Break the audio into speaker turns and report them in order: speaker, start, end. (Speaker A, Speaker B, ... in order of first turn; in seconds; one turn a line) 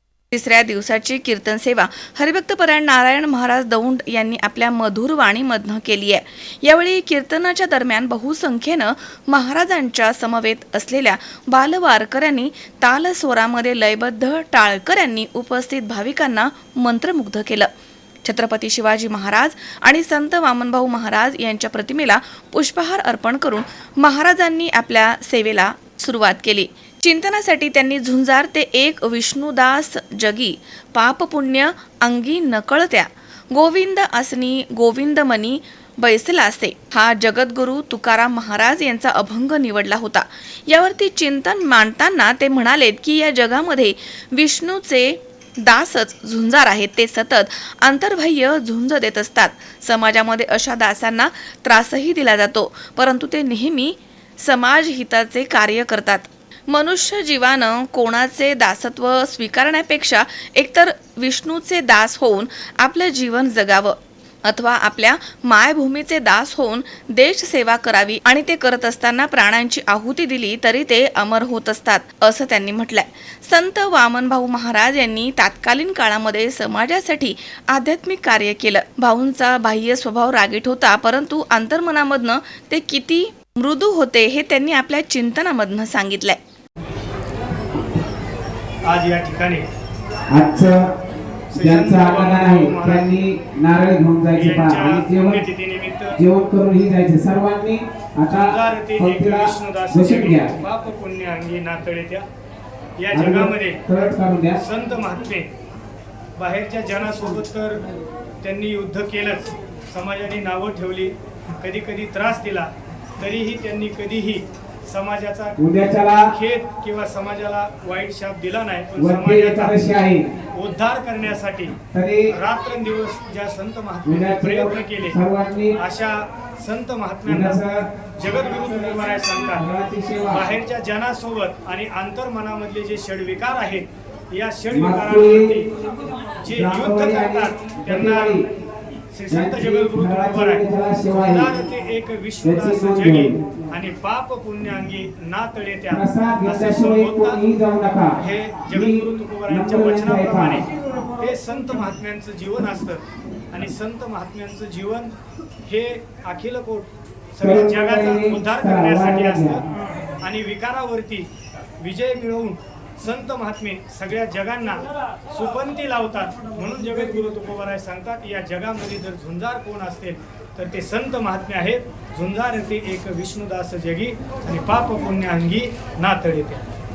Speaker A: 0.3-17.7
Speaker A: 18.2-86.4
Speaker B: 88.8-89.7
Speaker C: 90.3-90.9
Speaker B: 91.5-93.2
Speaker C: 91.6-95.5
Speaker B: 94.3-96.2
Speaker C: 96.1-100.5
Speaker B: 98.3-102.3
Speaker B: 103.0-105.5
Speaker C: 103.1-104.6
Speaker B: 106.4-107.8
Speaker B: 108.4-119.8
Speaker C: 115.6-116.3
Speaker C: 119.0-120.3
Speaker B: 120.5-121.8
Speaker C: 121.9-122.3
Speaker B: 122.3-125.2
Speaker C: 124.0-125.8
Speaker B: 125.8-127.6
Speaker C: 127.2-127.9
Speaker B: 128.2-129.7
Speaker C: 128.5-130.4
Speaker B: 130.3-135.7
Speaker C: 134.7-135.6
Speaker B: 136.4-138.4
Speaker C: 136.5-138.5
Speaker B: 139.1-147.4
Speaker C: 139.3-141.6
Speaker C: 142.4-143.4
Speaker C: 145.9-150.7
Speaker B: 148.2-155.1
Speaker B: 155.7-159.7
Speaker C: 157.4-159.6
Speaker B: 160.2-161.3
Speaker B: 161.8-176.6